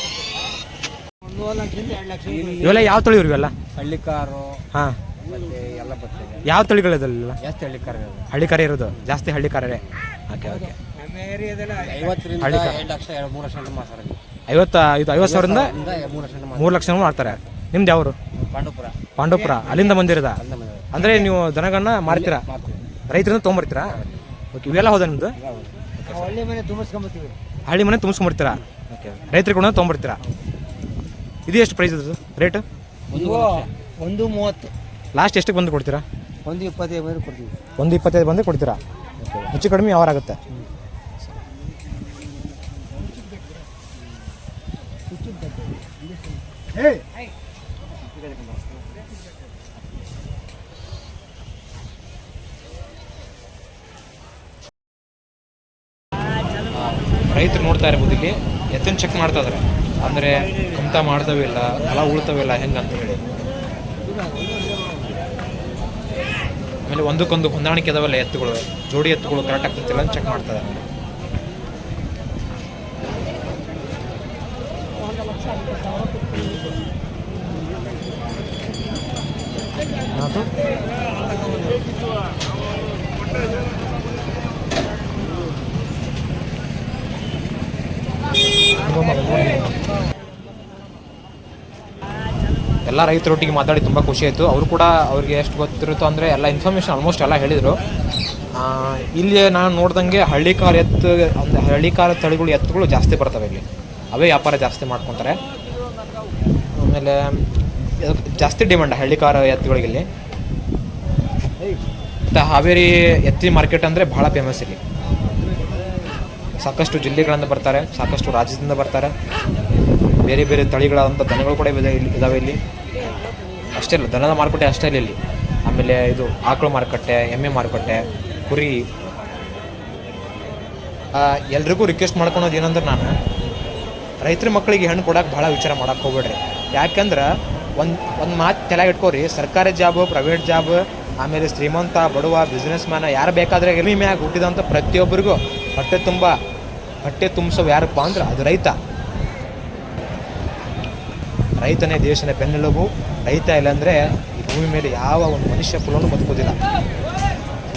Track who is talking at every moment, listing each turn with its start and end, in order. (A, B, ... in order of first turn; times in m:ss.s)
0:01.2-0:03.0 A
0:02.6-0:03.6 B
0:03.7-0:04.6 A
0:04.7-0:05.0 B
0:05.2-0:06.5 A
0:06.4-0:07.4 B
0:07.4-0:08.3 A
0:08.3-0:10.8 B
0:08.8-0:09.1 A
0:10.4-0:14.2 A
0:12.4-0:12.8 B
0:14.5-0:15.7 B
0:15.2-0:17.5 A
0:16.5-0:18.3 B
0:18.4-0:21.3 A
0:19.2-0:22.4 B
0:22.1-0:22.9 A
0:23.1-0:25.4 B
0:25.4-0:27.4 A
0:26.0-0:26.4 B
0:27.6-0:30.2 B
0:31.5-0:32.6 B
0:33.1-0:34.7 A
0:35.1-0:36.0 B
0:36.4-0:37.5 A
0:37.8-0:40.4 B
0:57.3-1:03.2 B
1:04.1-1:04.9 A
1:06.8-1:10.8 B
1:20.1-1:20.5 B
1:28.7-1:29.7 B
1:32.8-1:37.8 B
1:38.5-1:45.4 B
1:46.7-1:50.1 B
1:52.3-1:54.8 B
1:56.6-1:59.1 B
2:00.2-2:02.6 B
2:03.7-2:08.8 B
2:11.1-2:13.1 B
2:14.2-2:26.3 B
2:27.0-2:28.7 B
2:31.6-2:36.6 B